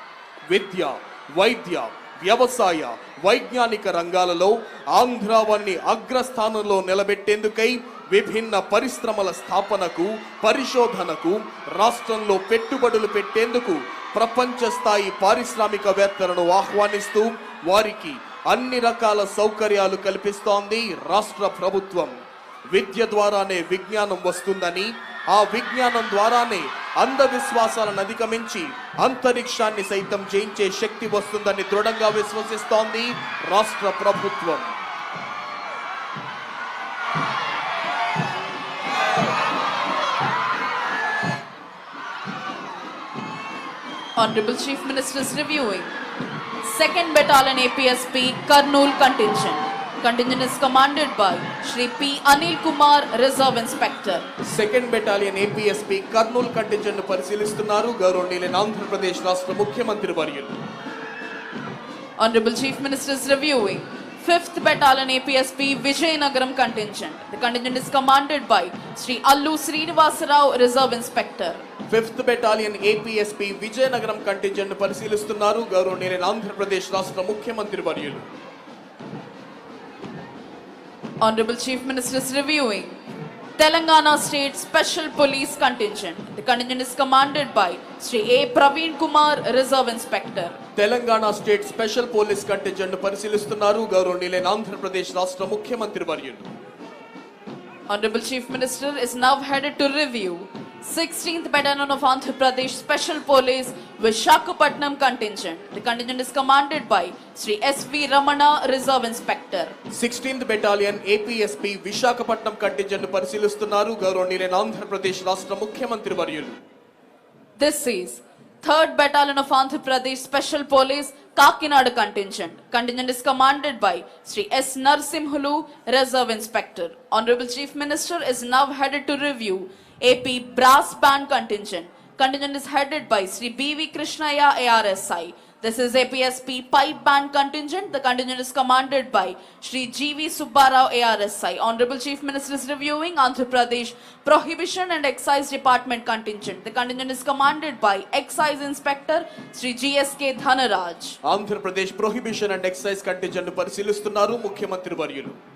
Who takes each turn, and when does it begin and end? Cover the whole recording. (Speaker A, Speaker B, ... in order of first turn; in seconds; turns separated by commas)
Speaker A: 0.5-22.1, Speaker A: 22.7-34.7, Speaker B: 44.2-46.0, Speaker B: 46.6-54.3, Speaker A: 54.4-60.6, Speaker B: 62.2-71.7, Speaker A: 71.9-78.2, Speaker B: 81.2-83.0, Speaker B: 83.6-90.6, Speaker A: 90.8-96.5, Speaker B: 97.9-109.8, Speaker A: 110.0-116.6, Speaker B: 117.6-151.2, Speaker A: 151.2-155.4